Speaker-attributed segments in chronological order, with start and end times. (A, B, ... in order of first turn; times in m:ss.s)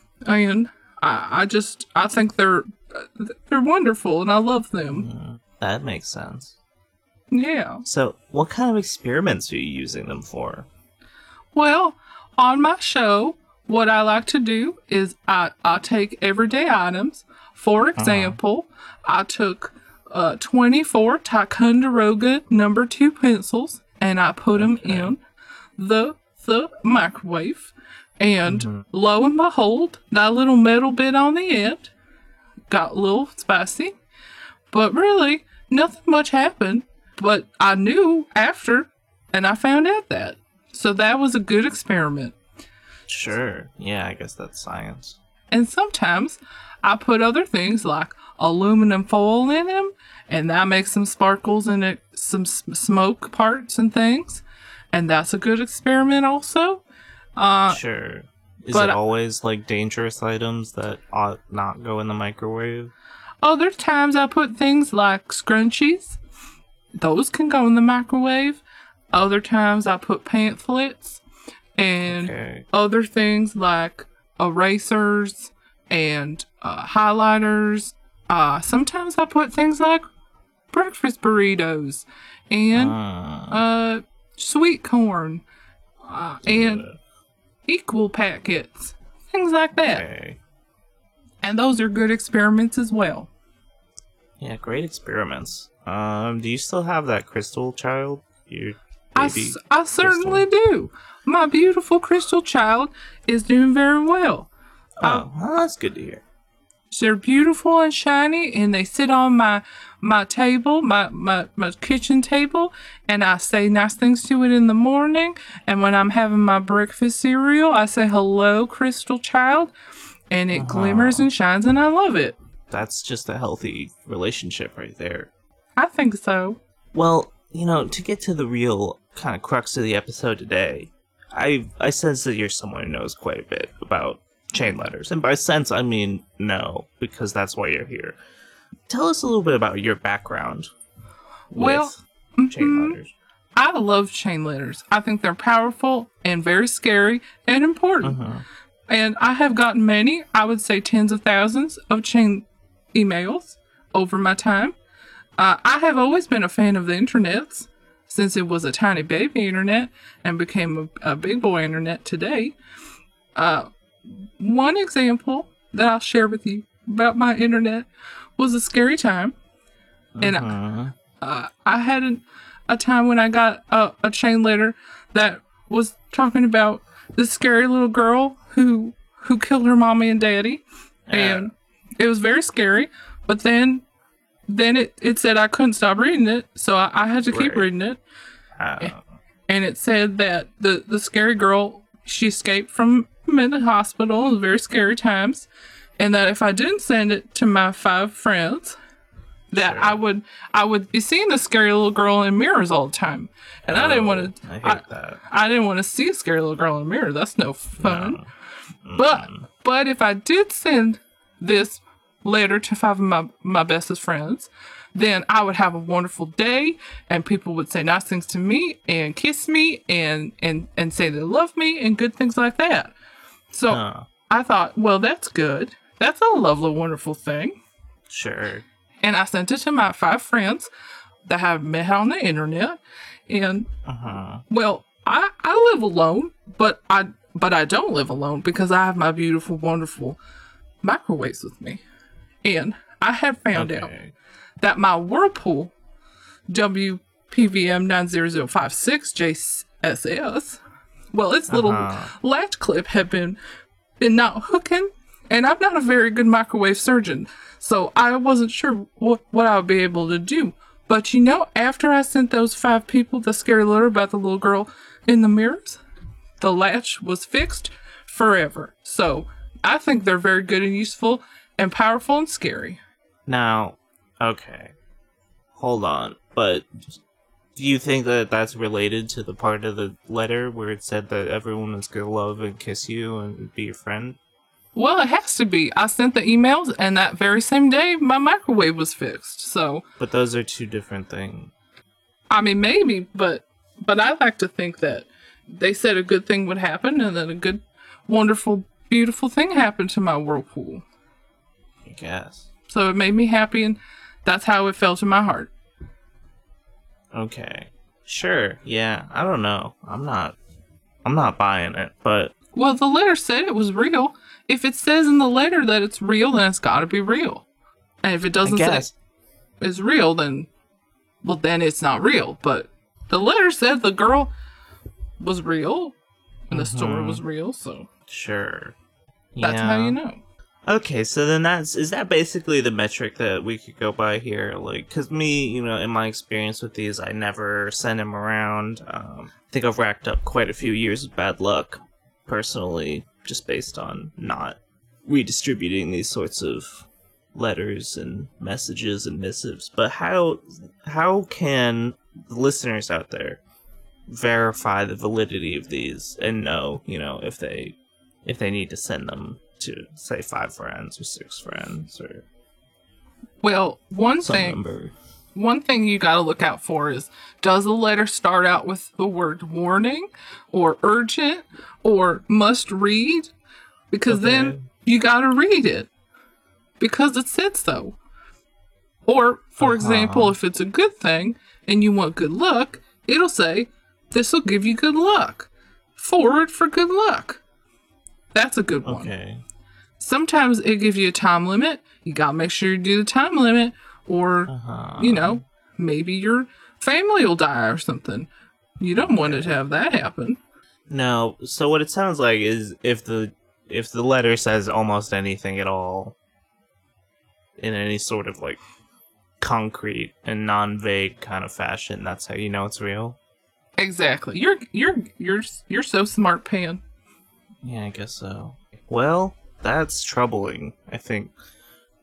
0:00.2-0:05.1 A
0:04.9-0:06.6 B
0:07.3-0:07.8 A
0:07.8-0:10.7 B
0:11.5-0:25.2 A
0:18.0-0:18.4 B
0:24.5-0:25.1 B
0:25.8-0:31.9 A
0:28.4-0:28.8 B
0:32.7-0:34.0 A
0:34.7-0:42.4 A
0:43.1-0:45.2 B
0:45.5-0:56.8 A
0:57.4-0:57.8 A
0:57.7-1:02.9 B
0:58.7-0:59.0 A
1:03.4-1:06.2 A
1:07.0-1:08.6 A
1:09.1-1:11.2 A
1:11.8-1:20.0 A
1:12.0-1:12.6 B
1:20.7-1:23.0 A
1:22.7-1:23.6 B
1:23.5-1:25.4 A
1:26.0-1:26.8 A
1:26.4-1:27.0 B
1:27.7-1:30.0 A
1:29.8-1:30.4 B
1:31.4-1:33.3 A
1:34.4-1:40.5 B
1:39.2-1:44.5 A
1:45.0-1:46.2 B
1:46.9-1:59.7 A
2:00.3-2:02.4 A
2:00.5-2:01.3 B
2:02.7-2:05.3 B
2:05.8-2:06.6 A
2:06.9-2:18.2 B
2:18.9-2:20.7 B
2:21.5-2:23.1 B
2:21.5-2:23.0 A
2:23.6-2:28.2 A
2:28.0-2:28.4 B
2:28.9-2:34.7 A
2:35.4-2:42.6 A
2:43.3-2:49.3 A
2:50.1-2:50.9 B
2:50.2-2:50.5 A
2:51.2-3:03.8 A
3:01.1-3:01.5 B
3:04.5-3:08.0 A
3:07.3-3:07.7 B
3:08.6-3:09.0 B
3:09.5-3:15.5 A
3:16.0-3:18.8 A
3:19.5-3:28.2 A
3:19.5-3:20.0 B
3:23.6-3:25.2 B
3:27.8-3:28.2 B
3:28.8-3:29.4 B
3:29.0-3:42.9 A
3:43.5-3:47.6 A
3:43.7-3:44.1 B
3:48.1-3:48.6 B
3:49.0-3:50.7 A
3:51.2-3:53.7 A
3:53.9-3:54.4 B
3:54.5-4:00.2 A
4:00.8-4:01.8 A
4:02.4-4:03.9 A
4:03.5-4:04.1 B
4:04.6-4:05.7 A
4:06.5-4:10.6 A
4:11.1-4:13.4 A
4:11.5-4:12.1 B
4:14.0-4:25.8 A
4:26.4-4:32.8 A
4:33.3-4:34.7 B
4:35.5-4:37.0 B
4:37.6-4:44.2 B
4:44.8-4:49.8 A
4:50.0-4:51.5 B
4:52.3-5:00.8 A
5:01.9-5:02.4 B
5:02.7-5:05.5 A
5:07.1-5:10.4 B
5:11.0-5:12.3 B
5:12.5-5:17.4 A
5:18.0-5:18.9 A
5:18.4-5:18.9 B
5:19.6-5:20.5 A
5:21.2-5:24.3 A
5:25.2-5:25.9 A
5:26.5-5:27.9 A
5:26.5-5:27.2 B
5:28.1-5:28.8 B
5:29.3-5:30.0 B
5:29.4-5:30.2 A
5:30.6-5:53.4 B
5:54.1-6:02.2 B
6:03.4-6:04.6 A
6:04.2-6:04.9 B
6:05.4-6:13.3 A
6:13.9-6:15.9 A
6:14.1-6:14.6 B
6:16.8-6:18.0 A
6:19.0-6:27.4 A
6:19.6-6:20.4 B
6:28.3-6:29.1 A
6:28.8-6:29.4 B
6:30.0-6:40.4 A
6:34.5-6:35.4 B
6:39.0-6:39.6 B
6:40.9-6:46.2 B
6:47.6-6:48.6 B
6:49.4-6:53.2 B
6:53.8-6:56.8 A
6:57.6-7:01.3 B